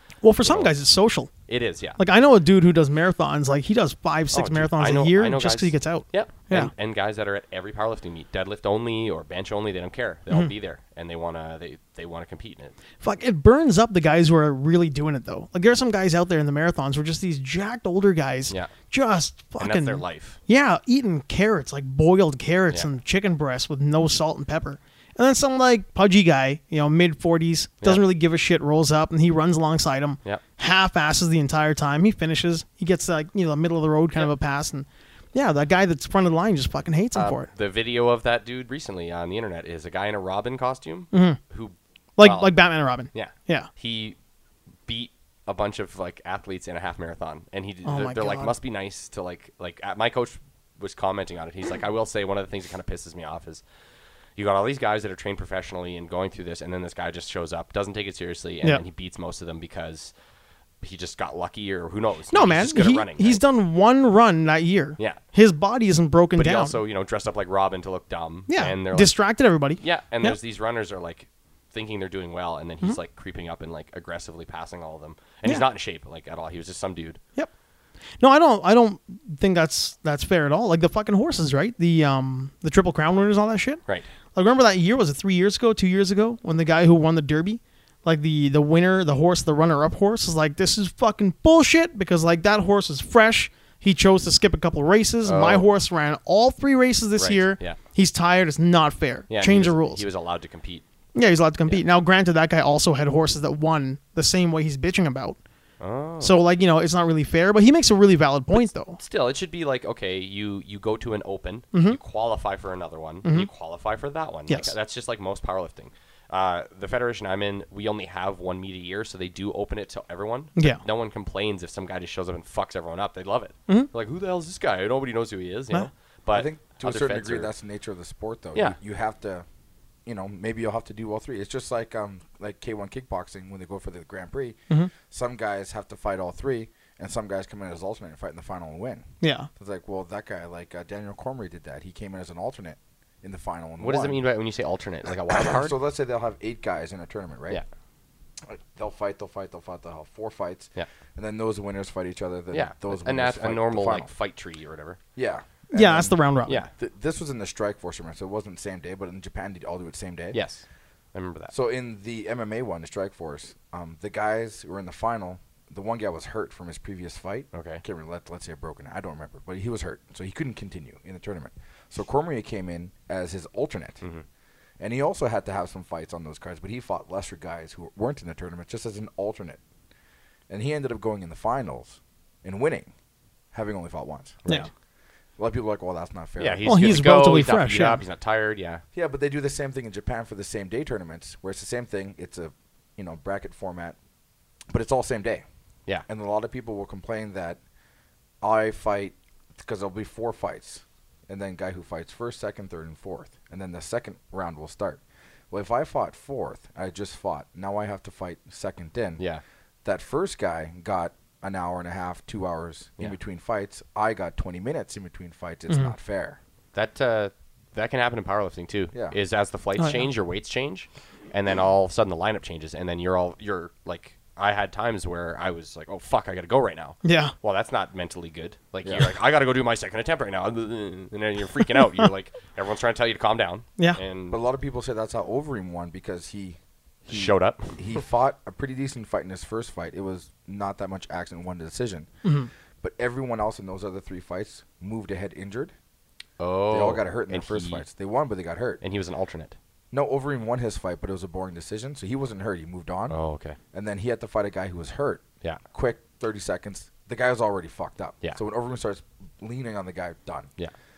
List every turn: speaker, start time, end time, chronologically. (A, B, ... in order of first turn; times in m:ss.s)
0:00.2-0:01.3 A
0:00.4-0:00.7 B
0:01.5-0:02.0 B
0:02.0-0:06.7 A
0:04.3-0:12.7 B
0:13.0-0:37.5 A
0:19.6-0:20.4 B
0:37.2-0:44.2 B
0:41.1-0:41.4 A
0:42.2-0:43.7 A
0:44.9-0:53.6 B
0:47.9-0:48.5 A
0:54.4-1:00.1 B
1:00.8-1:03.4 B
1:02.3-1:06.8 A
1:06.4-1:09.2 B
1:08.5-1:10.4 A
1:09.8-1:17.2 B
1:18.2-1:23.8 A
1:24.3-1:40.0 A
1:35.2-1:35.7 B
1:37.2-1:37.8 B
1:39.3-1:40.8 B
1:41.2-1:45.4 A
1:45.8-1:46.4 B
1:46.2-1:49.0 A
1:48.5-2:07.5 B
1:51.7-1:52.0 A
1:53.2-1:53.5 A
1:54.5-1:54.7 A
2:00.6-2:00.8 A
2:06.3-2:09.4 C
2:10.1-2:24.2 C
2:19.2-2:19.5 A
2:23.8-2:25.8 B
2:25.3-2:27.6 C
2:28.5-2:34.1 C
2:32.5-2:35.0 B
2:35.2-2:36.2 C
2:35.7-2:36.6 A
2:36.7-2:40.4 C
2:40.3-2:41.5 B
2:41.5-2:54.0 C
2:47.5-2:47.8 B
2:54.8-2:59.6 C
3:00.5-3:02.9 C
3:03.5-3:04.4 C
3:04.4-3:04.7 B
3:05.4-3:07.1 C
3:06.4-3:08.8 B
3:06.6-3:08.0 A
3:08.9-3:14.0 C
3:14.7-3:15.4 C
3:16.1-3:17.6 C
3:18.4-3:29.2 C
3:29.8-3:36.4 C
3:36.7-3:54.4 B
3:39.8-3:40.1 A
3:47.0-3:47.3 A
3:48.8-3:49.1 C
3:54.3-4:02.1 C
3:57.1-3:57.8 B
4:02.2-4:02.5 A
4:02.8-4:05.7 C
4:06.4-4:07.8 B
4:06.7-4:08.8 C
4:08.8-4:09.6 B
4:09.9-4:13.2 C
4:13.1-4:13.6 B
4:13.7-4:20.5 C